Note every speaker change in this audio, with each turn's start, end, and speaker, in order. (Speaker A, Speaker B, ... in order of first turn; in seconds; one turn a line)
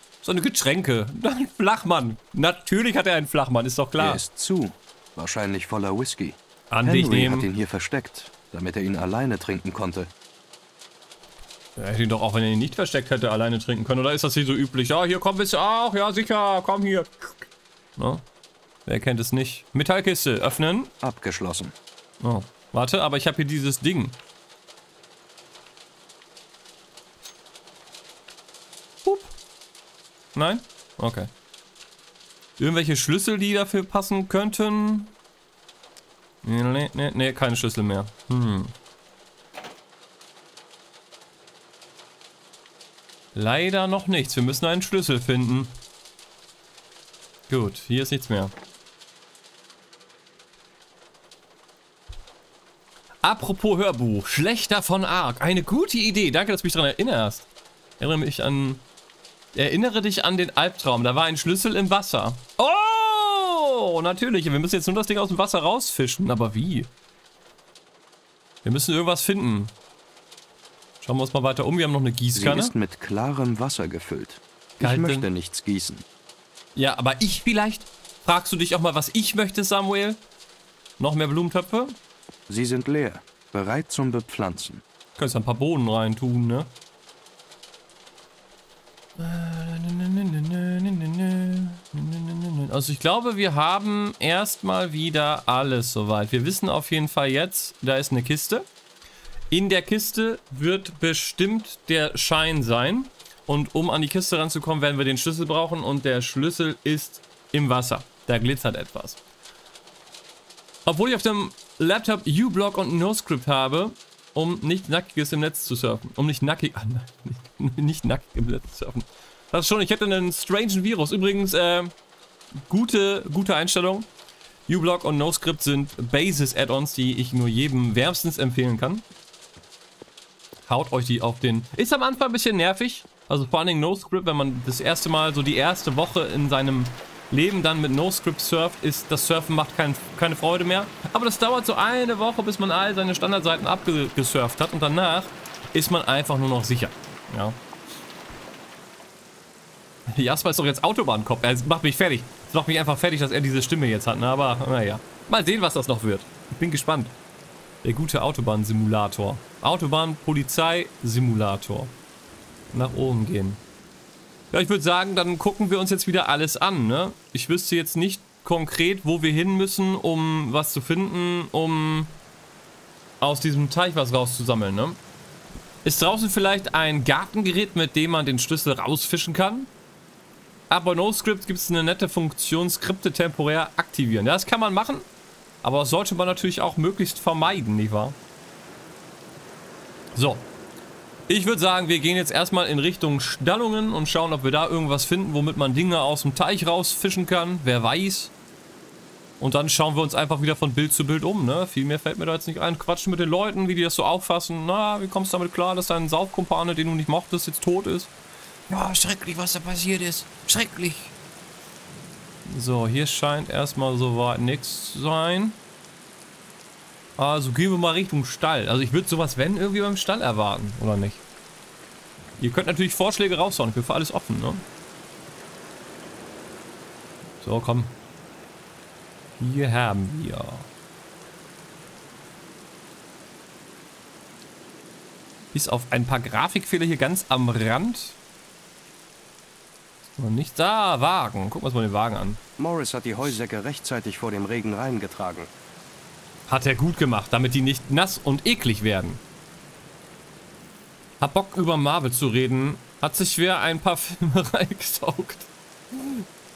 Speaker A: 0.2-4.2
Speaker B: 4.0-10.1
Speaker A: 6.7-7.5
Speaker A: 11.8-18.2
Speaker A: 18.9-20.9
Speaker B: 21.0-21.7
Speaker A: 22.2-24.2
Speaker A: 29.0-29.3
Speaker A: 30.3-31.3
Speaker A: 32.6-35.1
Speaker A: 36.4-38.7
Speaker A: 43.3-45.8
Speaker A: 47.5-48.5
Speaker A: 53.2-57.5
Speaker A: 58.0-58.8
Speaker A: 59.5-66.9
Speaker A: 68.6-69.7
Speaker A: 71.0-72.7
Speaker B: 72.3-76.0
Speaker A: 74.8-75.3
Speaker A: 76.8-80.2
Speaker A: 81.0-82.0
Speaker B: 82.5-84.8
Speaker A: 85.2-86.7
Speaker A: 89.2-98.7
Speaker A: 99.5-109.2
Speaker A: 110.8-121.9
Speaker A: 122.6-124.1
Speaker A: 124.7-129.0
Speaker A: 130.7-147.6
Speaker A: 150.1-157.1
Speaker A: 157.8-161.9
Speaker A: 162.7-163.6
Speaker A: 164.5-172.1
Speaker A: 173.2-175.0
Speaker A: 175.8-179.7
Speaker A: 180.7-185.1
Speaker A: 185.6-188.2
Speaker A: 190.1-190.5
Speaker A: 191.3-198.3
Speaker A: 199.4-208.1
Speaker A: 208.7-211.1
Speaker A: 212.4-215.6
Speaker A: 217.2-221.2
Speaker A: 222.4-224.6
Speaker A: 227.4-227.9
Speaker A: 229.4-230.7
Speaker A: 235.5-238.2
Speaker A: 240.1-242.4
Speaker B: 242.6-245.5
Speaker A: 246.5-249.2
Speaker A: 251.2-256.2